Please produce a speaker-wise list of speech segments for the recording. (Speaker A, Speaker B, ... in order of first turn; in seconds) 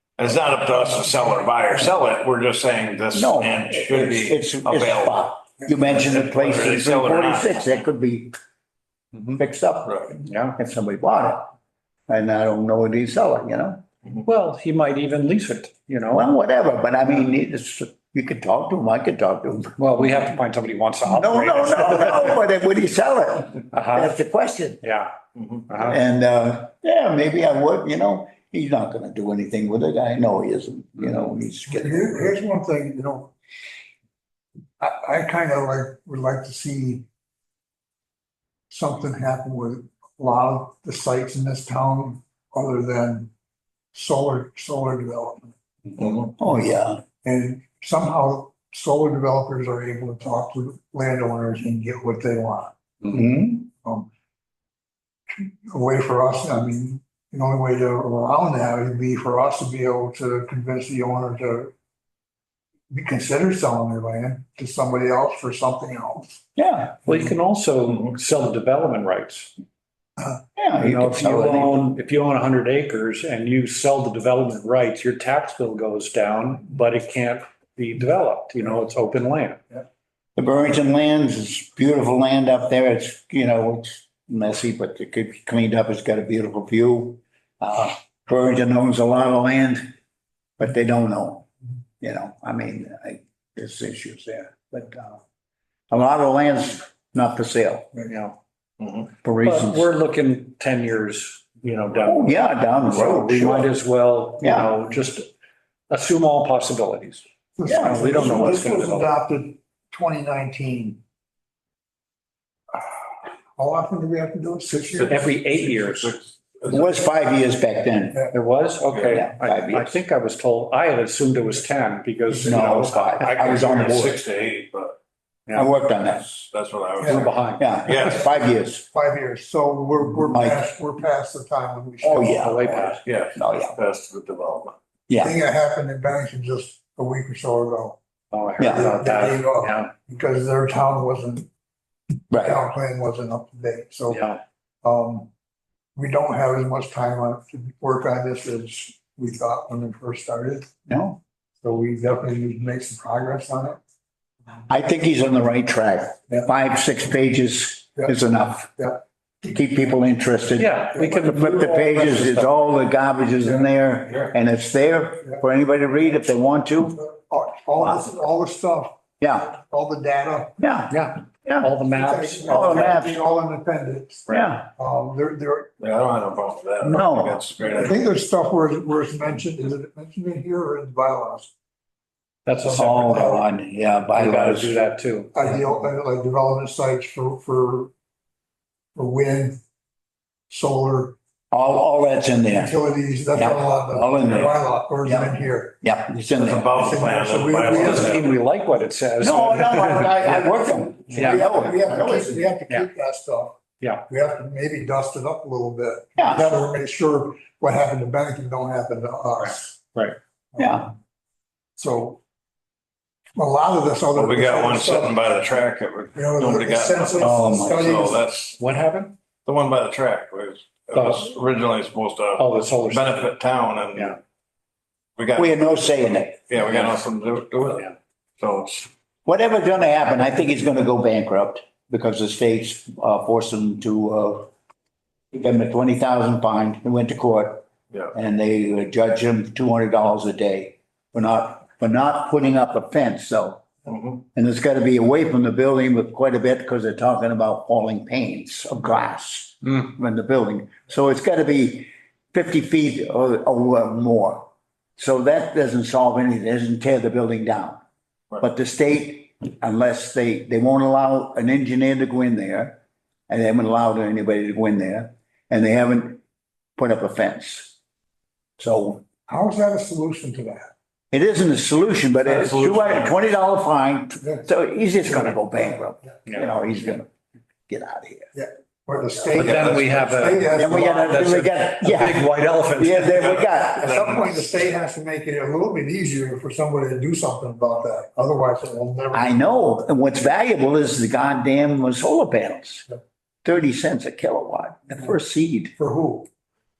Speaker A: 0.2-5.2, 5.8-7.7, 115.0-116.8, 118.9-119.2, 122.5-125.0, 126.5-128.2, 133.0-134.8, 175.8-178.0, 196.4-198.3, 214.1-218.6, 219.4-224.2, 225.2-225.5, 226.5-228.9, 243.9-244.2, 272.3-273.1, 283.2-284.2
Speaker B: 3.1-8.3, 9.3-11.5, 12.1-13.8, 16.1-19.9, 21.1-24.8, 25.8-32.3, 46.2-47.0, 53.1-53.7, 66.6-67.0, 70.6-71.8, 80.4-89.9, 90.6-91.5, 92.0-95.2, 95.9-98.0, 99.2-99.9, 102.0-103.8, 104.4-104.7, 107.7-108.2, 116.7-118.3, 119.1-120.0, 122.4-124.2, 125.5-126.5, 127.6-128.9, 130.3-130.7, 132.0-133.8, 135.1-135.3, 138.6-138.9, 142.3-142.6, 150.9-151.2, 154.7-167.0, 169.2-169.5, 170.6-171.7, 172.5-173.2, 174.3-174.7, 176.8-177.4, 182.6-184.8, 191.5-192.7, 193.3-196.7, 199.2-202.5, 206.2-206.6, 210.6-210.9, 217.2-217.9, 225.4-226.5, 229.3-234.5, 235.3-243.7, 244.3-257.8, 258.4-266.2, 266.8-267.8, 268.6-269.0, 271.1-277.1, 277.7-278.3, 279.4-279.8, 280.5-284.1, 289.1-292.9, 293.4-295.8
Speaker C: 10.2-10.6, 14.2-16.3, 19.8-22.4, 23.7-24.2, 24.8-25.1, 25.7-26.0, 67.0-69.5, 70.8-79.6, 98.1-98.4, 99.4-105.3, 105.9-107.2, 107.8-109.1, 115.1-116.2, 118.3-123.9, 127.0-128.1, 132.4-133.0, 138.3-139.9, 144.1-144.4, 160.6-162.5, 170.9-172.9, 182.5-183.3, 184.1-185.4, 197.7-200.5, 201.1-201.4, 203.8-204.1, 218.6-219.2, 220.9-221.3, 222.4-223.2, 279.3-283.3
Speaker D: 31.7-33.3, 34.8-37.1, 38.7-43.3, 43.9-45.5, 47.2-54.1, 55.3-61.7, 62.9-66.4, 107.6-111.0, 113.6-115.2, 127.0-127.3, 128.9-132.7, 135.2-138.0, 138.6-141.5, 142.3-145.3, 146.0-150.9, 151.6-153.8, 167.0-170.6, 171.9-175.7, 177.7-181.5, 182.8-183.4, 185.3-187.9, 188.9-189.6, 190.5-191.2, 192.5-195.8, 196.7-198.3, 201.1-209.9, 210.6-211.0, 211.8-212.2, 213.3-215.3, 216.1-218.3, 269.3-270.7, 278.3-281.3, 283.8-289.5, 295.8-296.3